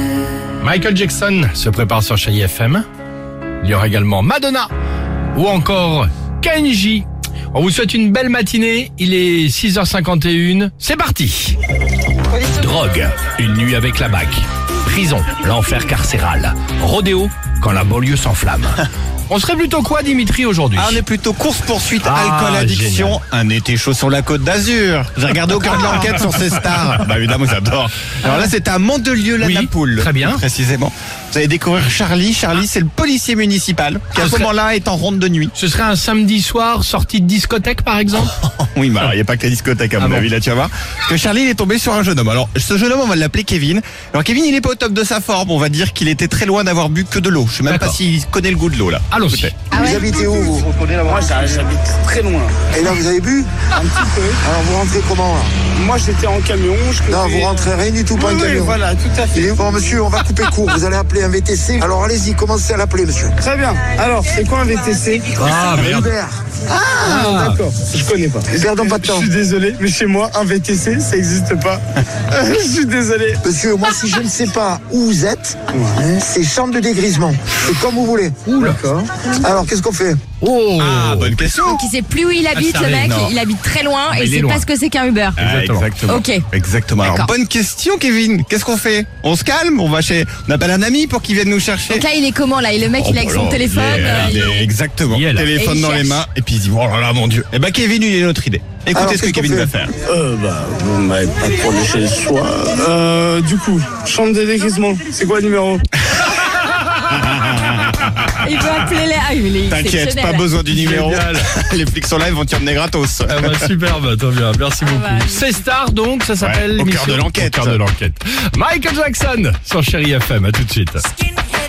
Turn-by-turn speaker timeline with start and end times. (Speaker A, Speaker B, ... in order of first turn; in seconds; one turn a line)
Speaker A: 0.6-2.8
Speaker A: 3.6-4.7
Speaker A: 5.3-11.6
Speaker A: 12.3-21.0
Speaker B: 20.7-35.5
Speaker A: 22.0-23.2
Speaker A: 28.2-28.5
Speaker A: 29.4-30.4
Speaker A: 34.1-34.5
Speaker A: 35.5-38.5
Speaker B: 38.5-49.7
Speaker A: 40.0-40.3
Speaker A: 47.7-48.0
Speaker A: 49.1-49.5
Speaker C: 49.6-50.1
Speaker D: 49.7-50.7
Speaker E: 50.2-52.6
Speaker D: 52.7-53.7
Speaker E: 53.7-54.4
Speaker D: 54.4-55.6
Speaker E: 55.7-59.6
Speaker D: 57.1-58.8
Speaker D: 59.3-63.4
Speaker E: 63.4-65.4
Speaker D: 65.3-66.4
Speaker A: 65.4-66.1
Speaker E: 67.0-73.4
Speaker A: 67.0-67.6
Speaker D: 67.1-67.4
Speaker D: 68.5-69.3
Speaker D: 73.4-80.2
Speaker A: 80.4-81.3
Speaker B: 80.8-81.8
Speaker C: 81.6-85.4
Speaker A: 82.5-83.2
Speaker B: 83.1-83.3
Speaker A: 84.1-84.7
Speaker B: 85.4-92.1
Speaker A: 85.4-85.9
Speaker C: 86.0-86.4
Speaker C: 87.0-87.3
Speaker C: 91.9-94.7
Speaker B: 93.0-99.9
Speaker A: 95.1-95.5
Speaker C: 95.5-96.2
Speaker D: 98.9-99.7
Speaker E: 100.1-105.8
Speaker B: 106.1-106.4
Speaker B: 107.1-108.8
Speaker C: 108.3-110.6
Speaker B: 109.7-113.7
Speaker A: 110.7-111.5
Speaker A: 113.3-121.1
Speaker C: 114.8-115.5
Speaker B: 116.4-117.8